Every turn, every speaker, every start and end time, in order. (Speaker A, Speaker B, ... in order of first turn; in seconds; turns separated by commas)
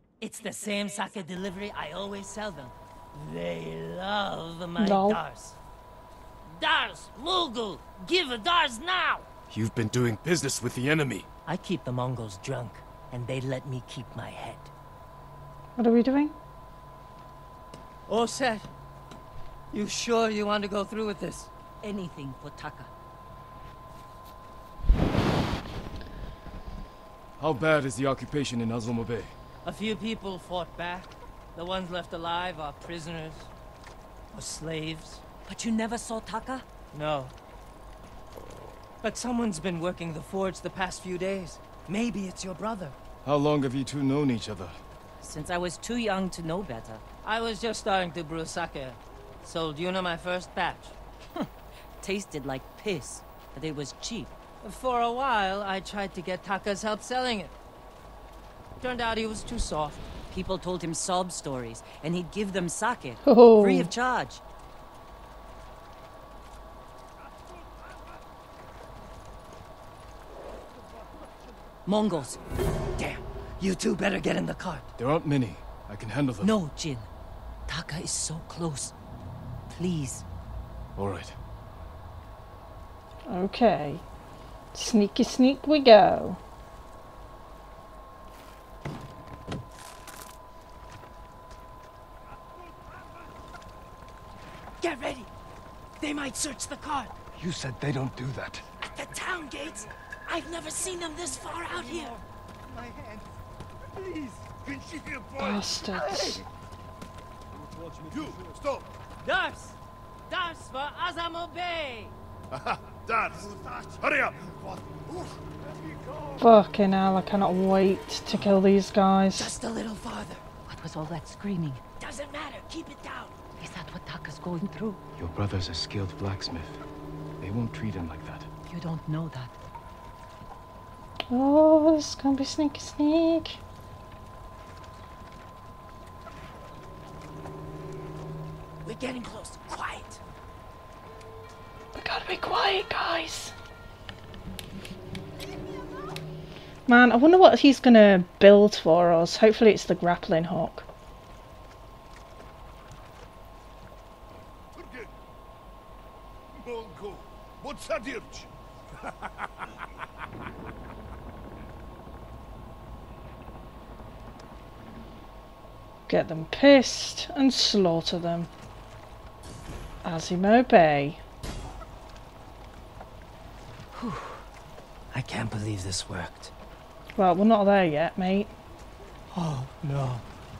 Speaker A: 0.2-5.6, Speaker B: 4.8-5.2, Speaker A: 6.5-9.2, Speaker C: 9.5-11.3, Speaker A: 11.5-14.7, Speaker B: 15.8-16.3, Speaker A: 18.1-18.7, Speaker A: 19.7-21.5, Speaker D: 21.8-22.9, Speaker C: 27.4-29.3, Speaker A: 29.6-33.5, Speaker A: 34.3-35.2, Speaker D: 35.5-36.7, Speaker A: 36.9-37.3, Speaker A: 39.0-43.0, Speaker C: 43.2-44.8, Speaker D: 45.2-47.0, Speaker A: 47.2-51.0, Speaker D: 52.0-54.3, Speaker A: 54.6-57.5, Speaker A: 58.8-60.1, Speaker D: 60.3-64.4, Speaker B: 63.2-63.9, Speaker D: 71.9-72.4, Speaker A: 73.0-74.9, Speaker C: 75.0-76.5, Speaker D: 76.4-77.1, Speaker D: 77.7-78.9, Speaker D: 79.7-80.2, Speaker C: 81.0-81.4, Speaker B: 83.3-84.0, Speaker B: 84.7-86.4, Speaker A: 94.8-95.3, Speaker A: 96.0-97.1, Speaker E: 97.4-98.7, Speaker A: 98.9-102.2, Speaker A: 104.0-104.3, Speaker E: 104.6-105.6, Speaker B: 105.4-106.4, Speaker A: 105.9-106.4, Speaker E: 108.1-108.9, Speaker A: 109.2-109.8, Speaker A: 110.3-112.1, Speaker E: 112.5-115.3, Speaker B: 116.4-119.5, Speaker A: 119.3-120.4, Speaker D: 120.7-121.8, Speaker A: 122.0-123.4, Speaker D: 123.6-125.0, Speaker C: 125.2-126.8, Speaker C: 127.4-128.5, Speaker D: 128.7-129.5, Speaker B: 131.3-133.6, Speaker A: 138.8-140.2, Speaker B: 141.9-143.5, Speaker B: 146.9-150.9, Speaker E: 154.8-155.1, Speaker E: 156.6-158.5, Speaker B: 166.1-168.5, Speaker B: 170.0-171.2, Speaker A: 174.0-174.3, Speaker A: 175.1-176.5, Speaker B: 177.2-178.5, Speaker A: 179.3-180.2